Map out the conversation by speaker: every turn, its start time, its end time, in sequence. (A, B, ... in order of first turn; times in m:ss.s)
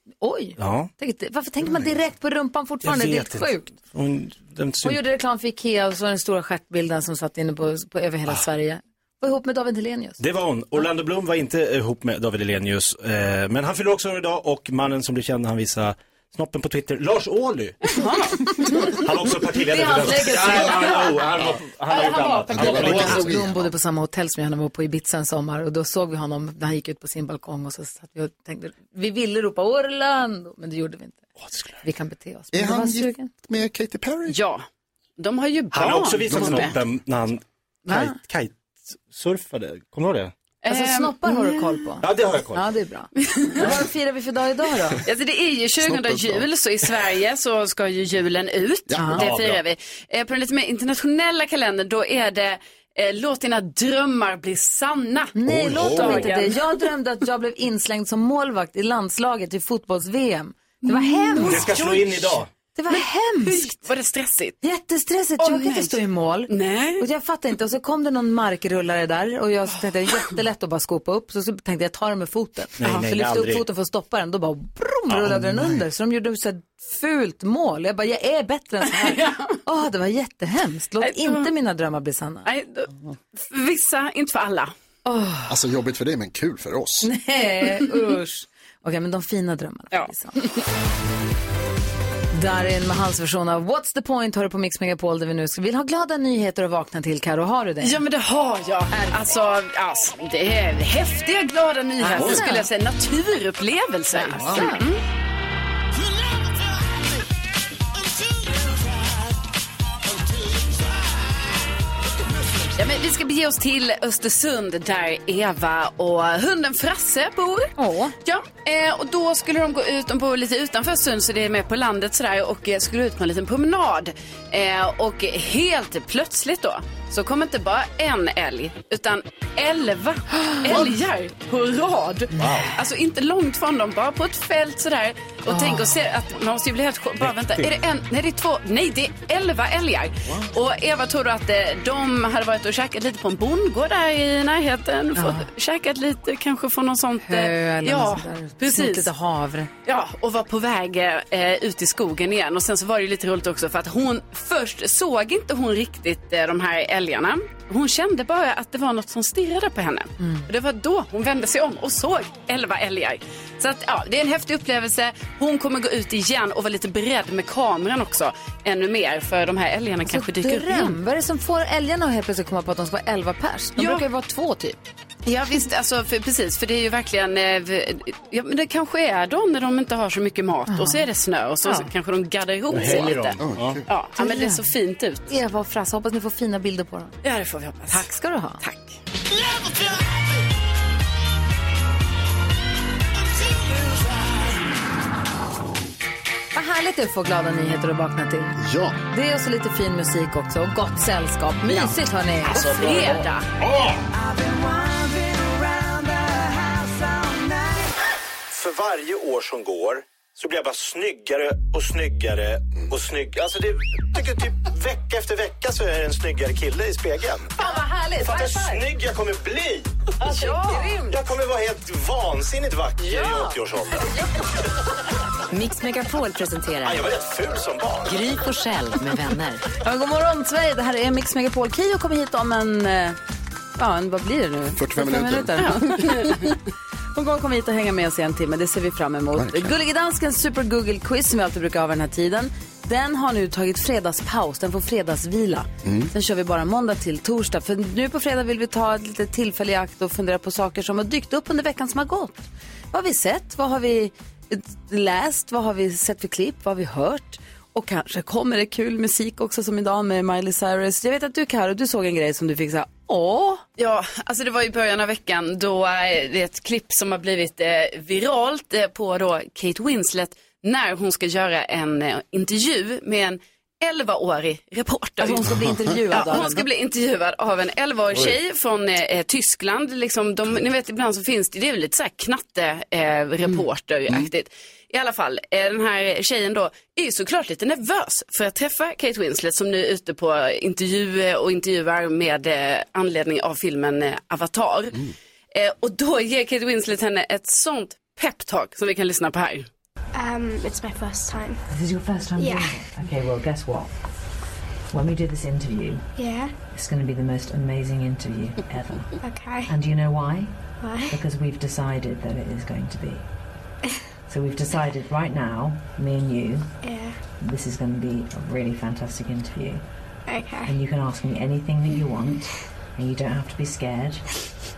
0:00.2-0:03.7 A
0:00.6-0:00.9 B
0:02.8-0:05.0 B
0:04.8-0:10.2 A
0:10.2-0:17.8 B
0:18.0-0:18.8 A
0:18.7-0:23.4 B
0:19.6-0:21.2 A
0:21.8-0:31.3 A
0:22.5-0:23.7 C
0:31.4-0:31.8 B
0:31.8-0:33.3 A
0:32.5-0:34.4 C
0:34.3-0:34.6 D
0:35.2-0:36.8 D
0:35.7-0:40.3 B
0:36.4-0:36.6 C
0:37.9-0:38.1 A
0:40.6-0:41.8 D
0:40.7-0:45.0 A
0:42.0-0:42.6 B
0:43.4-0:43.6 D
0:45.0-0:56.8 D
0:45.8-0:46.4 C
0:48.9-0:49.2 C
0:49.2-0:49.6 B
0:55.3-1:01.9 A
0:55.5-0:56.2 C
1:00.8-1:02.2 D
1:01.4-1:02.5 B
1:02.8-1:03.8 A
1:02.9-1:04.6 D
1:04.6-1:22.5 A
1:05.4-1:05.9 D
1:06.5-1:07.0 D
1:12.8-1:13.6 B
1:15.1-1:15.8 C
1:19.0-1:19.6 D
1:21.0-1:21.5 D
1:22.4-1:24.7 D
1:25.0-1:25.5 A
1:25.5-1:27.1 C
1:27.0-1:30.5 A
1:32.3-1:38.0 A
1:37.8-1:45.0 D
1:38.9-1:39.2 A
1:42.1-1:42.4 C
1:42.1-1:42.6 A
1:44.3-1:44.8 A
1:52.8-1:57.7 D
1:58.2-2:29.1 D
2:12.4-2:12.7 B
2:15.5-2:16.0 A
2:17.2-2:17.7 B
2:25.2-2:25.5 A
2:27.2-2:29.7 A
2:29.8-2:51.0 D
2:40.2-2:40.4 A
2:50.1-2:54.8 A
2:53.8-2:54.0 D
2:55.2-3:03.4 D
3:00.7-3:01.0 A
3:02.7-3:03.8 B
3:03.4-3:03.8 C
3:03.9-3:05.3 D
3:04.2-3:04.6 A
3:05.3-3:07.2 A
3:07.2-3:08.0 D
3:07.9-3:08.6 A
3:08.6-3:09.0 D
3:16.5-3:18.6 A
3:18.6-3:19.0 C
3:19.1-3:23.2 A
3:21.7-3:23.4 D
3:23.6-3:23.9 B
3:24.1-3:27.9 E
3:28.5-3:37.5 B
3:37.6-3:38.8 A
3:38.2-3:39.9 B
3:40.2-3:41.3 A
3:40.3-3:40.8 D
3:41.1-3:44.1 B
3:45.5-3:47.1 E
3:46.8-3:48.2 B
3:48.1-3:49.6 E
3:49.8-3:53.2 A
3:53.8-3:56.5 A
3:54.7-3:56.2 C
3:55.6-3:56.3 D
3:57.1-4:23.6 A
3:59.3-3:59.7 C
4:05.8-4:06.1 C
4:23.8-4:35.5 D
4:35.2-4:36.6 A
4:35.4-4:35.9 C
4:36.1-4:59.6 D
5:00.2-5:01.6 F
5:01.7-5:03.9 G
5:02.4-5:02.7 F
5:04.9-5:06.1 G
5:06.2-5:06.5 F
5:06.7-5:10.5 G
5:09.2-5:09.7 F
5:10.8-5:11.2 F
5:11.1-5:13.2 G
5:14.3-5:16.7 G
5:16.8-5:17.2 F
5:17.4-5:19.8 G
5:20.3-5:20.8 F
5:20.6-5:24.3 G